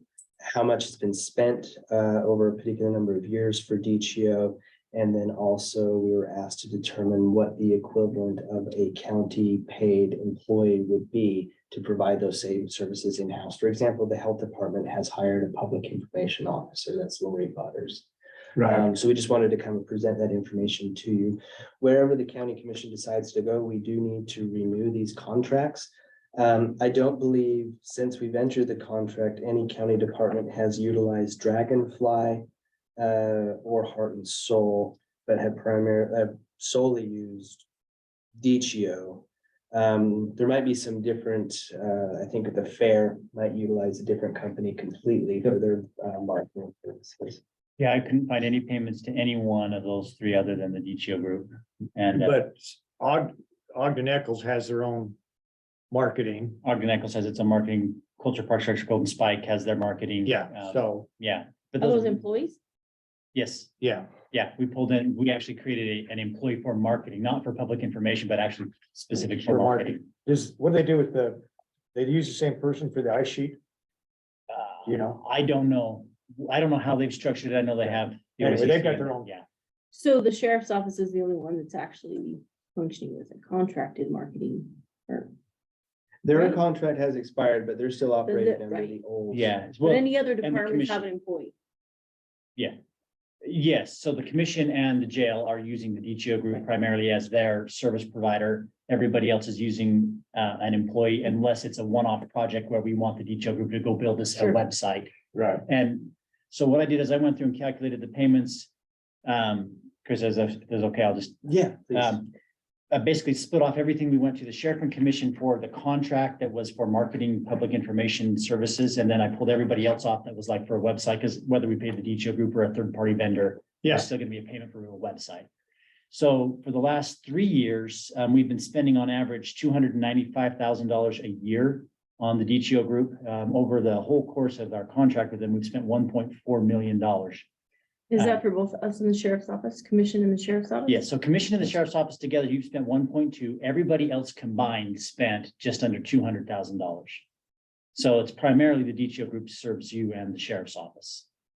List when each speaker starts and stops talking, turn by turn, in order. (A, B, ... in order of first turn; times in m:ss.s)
0:00.4-0:18.1 A
0:18.6-0:32.4 A
0:33.0-0:37.7 A
0:38.4-0:47.4 A
0:47.8-0:52.4 B
0:52.1-0:55.2 C
0:55.9-0:56.6 C
0:56.6-1:02.2 B
1:00.2-1:01.1 C
1:01.8-1:02.6 D
1:03.4-1:03.7 B
1:03.8-1:04.1 C
1:04.3-1:10.1 B
1:09.4-1:13.6 C
1:14.5-1:19.4 B
1:14.9-1:15.2 C
1:18.4-1:19.3 C
1:19.9-1:25.3 D
1:26.2-1:29.5 A
1:28.3-1:29.0 D
1:29.3-1:31.1 B
1:29.8-1:31.5 D
1:33.4-1:45.1 B
1:45.3-1:45.6 C
1:45.7-1:48.7 B
1:49.2-1:52.3 B
1:51.4-1:52.2 A
1:52.9-2:05.5 B
2:06.1-2:17.5 B
2:18.1-2:21.0 D
2:20.9-2:27.2 B
2:28.0-2:31.3 B